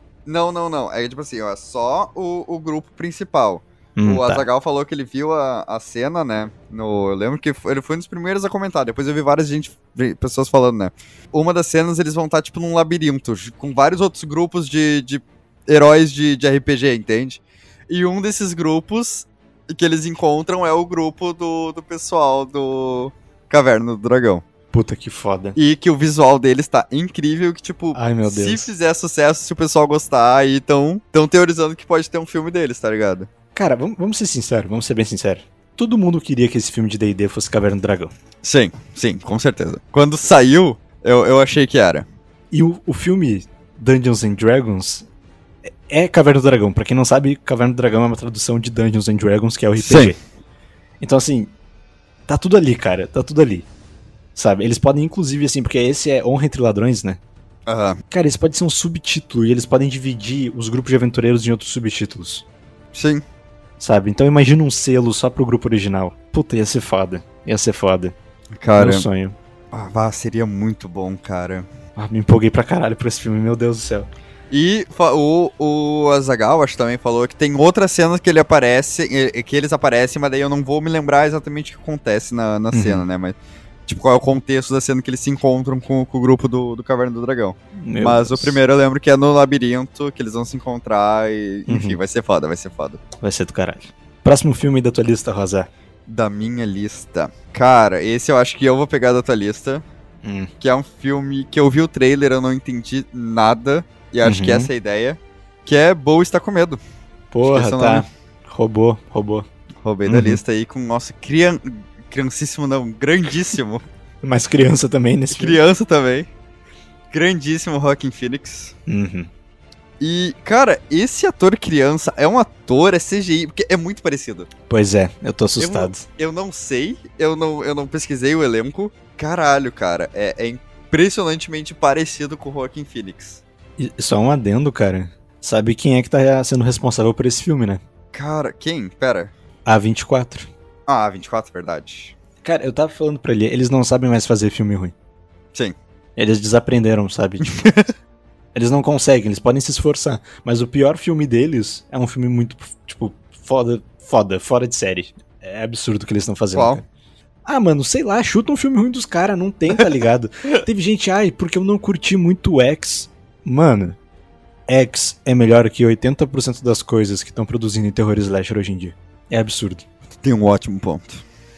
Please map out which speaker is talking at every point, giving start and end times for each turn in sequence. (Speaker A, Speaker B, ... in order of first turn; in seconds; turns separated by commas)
Speaker A: 0.3-24.4, Speaker B: 4.0-4.5, Speaker B: 24.7-25.6, Speaker A: 25.6-33.3, Speaker B: 27.9-28.7, Speaker B: 33.5-38.1, Speaker A: 38.4-42.1, Speaker B: 42.5-45.1, Speaker B: 45.7-50.2, Speaker A: 49.8-50.2, Speaker B: 51.0-51.5, Speaker B: 52.3-53.7, Speaker B: 54.4-57.2, Speaker A: 57.7-58.0, Speaker B: 58.1-62.5, Speaker A: 62.9-63.2, Speaker B: 63.8-68.2, Speaker A: 68.6-69.1, Speaker B: 68.8-69.4, Speaker A: 69.7-71.7, Speaker B: 72.0-74.1, Speaker A: 74.5-83.4, Speaker B: 82.7-83.1, Speaker A: 83.9-93.0, Speaker B: 87.8-88.6, Speaker B: 91.7-92.0, Speaker B: 93.2-95.7, Speaker A: 96.1-99.8, Speaker B: 100.2-100.5, Speaker A: 100.6-106.8, Speaker B: 104.2-104.7, Speaker B: 107.3-109.5, Speaker A: 107.5-108.1, Speaker A: 109.8-113.8, Speaker B: 110.1-110.4, Speaker B: 114.2-115.6, Speaker A: 115.3-116.3, Speaker A: 117.1-118.7, Speaker B: 118.9-119.3, Speaker A: 120.0-124.5, Speaker B: 124.7-126.0, Speaker A: 125.6-133.4, Speaker B: 133.8-137.8, Speaker A: 138.1-139.3, Speaker B: 139.7-140.5, Speaker A: 140.9-142.1, Speaker B: 142.4-144.9, Speaker B: 146.2-147.6, Speaker A: 147.4-147.9, Speaker B: 148.6-156.8, Speaker A: 156.6-156.8, Speaker B: 157.5-164.0, Speaker B: 164.7-169.8, Speaker A: 170.2-171.2